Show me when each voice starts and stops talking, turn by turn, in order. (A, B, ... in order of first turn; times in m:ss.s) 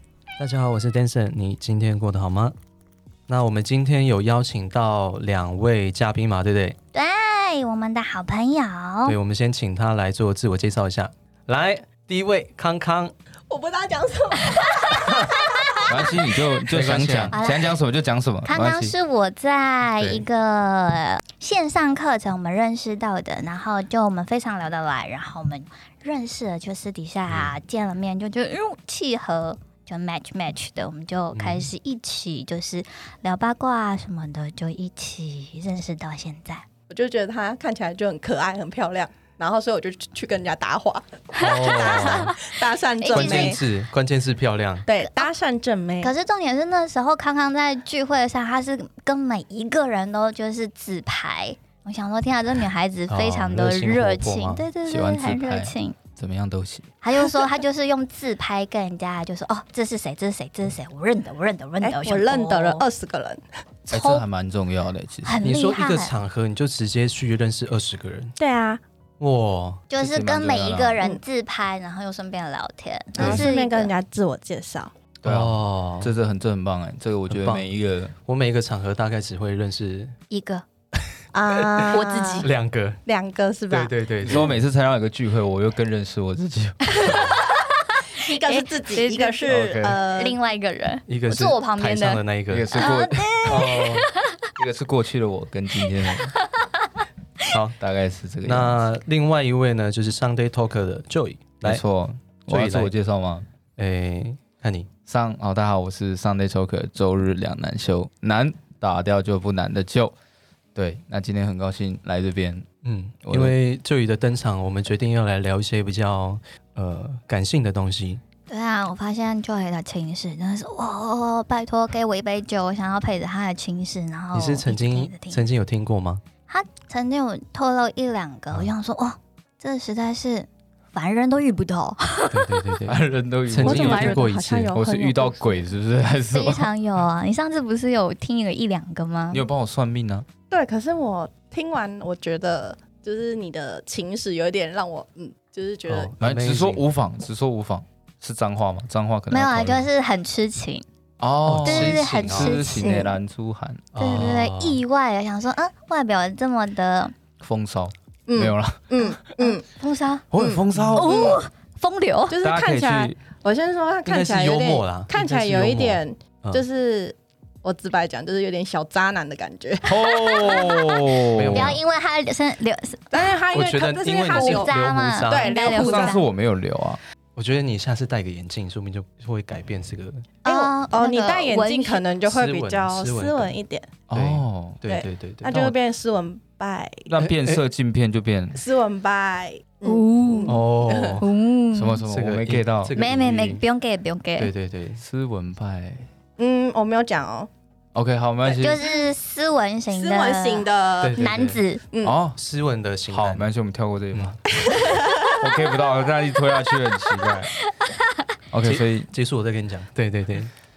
0:00.4-0:02.6 A
0:03.3-0:06.8 A
0:06.9-0:09.2 B
0:09.1-0:13.1 A
0:13.5-0:16.1 C
0:15.9-0:18.9 D
0:16.7-0:17.4 A
0:17.3-0:17.8 B
0:18.4-0:36.7 B
0:31.3-0:31.7 A
0:36.9-0:43.6 C
0:41.3-0:43.6 B
0:41.4-0:42.4 A
0:43.1-0:44.9 A
0:44.9-0:46.1 C
0:45.0-0:45.3 B
0:46.0-0:56.0 B
0:53.1-0:54.7 A
0:54.9-0:56.9 D
0:57.0-1:02.8 B
1:01.8-1:03.4 C
1:03.9-1:04.2 B
1:03.9-1:05.5 D
1:05.2-1:06.1 B
1:05.4-1:08.4 A
1:08.4-1:08.8 C
1:09.2-1:09.8 A
1:09.9-1:13.9 B
1:10.0-1:11.0 D
1:13.2-1:13.5 A
1:13.2-1:14.9 C
1:15.2-1:18.1 D
1:15.2-1:16.2 A
1:17.3-1:17.7 A
1:18.3-1:20.2 A
1:20.3-1:20.6 B
1:21.0-1:23.0 A
1:21.3-1:22.5 C
1:21.9-1:22.5 B
1:23.1-1:23.9 C
1:23.7-1:24.6 A
1:24.2-1:27.3 D
1:27.0-1:27.2 B
1:27.9-1:34.4 B
1:28.1-1:30.4 C
1:29.5-1:30.0 D
1:31.1-1:32.7 A
1:32.5-1:33.6 D
1:33.4-1:34.1 A
1:34.6-1:36.4 D
1:36.6-1:36.9 B
1:37.5-1:37.8 A
1:37.8-1:38.8 D
1:38.4-1:41.8 A
1:41.6-1:43.5 D
1:42.5-1:42.9 A
1:43.8-1:44.9 A
1:45.1-1:50.1 D
1:50.8-1:52.7 D
1:52.8-1:58.2 A
1:53.2-1:53.6 D
1:58.5-2:05.4 B
2:04.3-2:06.2 A
2:06.5-2:12.7 B
2:12.3-2:14.8 A
2:12.9-2:16.7 D
2:13.6-2:15.4 C
2:16.3-2:19.4 B
2:19.3-2:20.3 D
2:20.5-2:26.1 C
2:25.8-2:26.8 A
2:26.2-2:29.9 D
2:29.3-2:30.8 B
2:31.2-2:34.3 D
2:31.4-2:32.8 A
2:31.6-2:33.1 B
2:33.9-2:34.8 A
2:34.0-2:37.2 B
2:37.4-2:39.1 D
2:38.3-2:39.6 C
2:39.4-2:40.3 B
2:40.3-2:41.4 D
2:40.4-2:41.4 C
2:41.0-2:42.4 B
2:42.3-2:50.0 C
2:42.4-2:43.2 D
2:44.1-2:46.6 A
2:49.8-2:51.8 D
2:50.0-2:53.4 B
2:51.4-2:51.8 A
2:53.1-2:54.8 C
2:53.5-2:55.6 A
2:54.3-2:56.2 B
2:55.3-2:56.2 C
2:55.7-2:57.0 D
2:57.4-3:00.3 A
3:00.4-3:02.0 B
3:00.4-3:03.9 C
3:02.2-3:03.6 A
3:04.1-3:04.8 D
3:04.1-3:05.7 A
3:04.9-3:07.1 C
3:05.4-3:05.7 D
3:07.1-3:08.6 D
3:07.2-3:07.6 A
3:08.6-3:11.2 C
3:09.8-3:10.6 B
3:10.5-3:11.3 A
3:11.2-3:12.0 B
3:11.7-3:13.0 D
3:12.1-3:13.6 A
3:13.0-3:14.5 B
3:14.4-3:15.0 A
3:15.0-3:16.1 D
3:16.4-3:17.5 C
3:17.9-3:18.8 D
3:18.5-3:19.1 C
3:18.6-3:21.8 B
3:19.9-3:21.3 C
3:21.0-3:21.6 A
3:21.9-3:22.2 C
3:22.0-3:22.4 D
3:22.4-3:23.5 A
3:23.1-3:27.5 D
3:24.6-3:25.3 C
3:28.5-3:29.1 D
3:28.6-3:30.5 A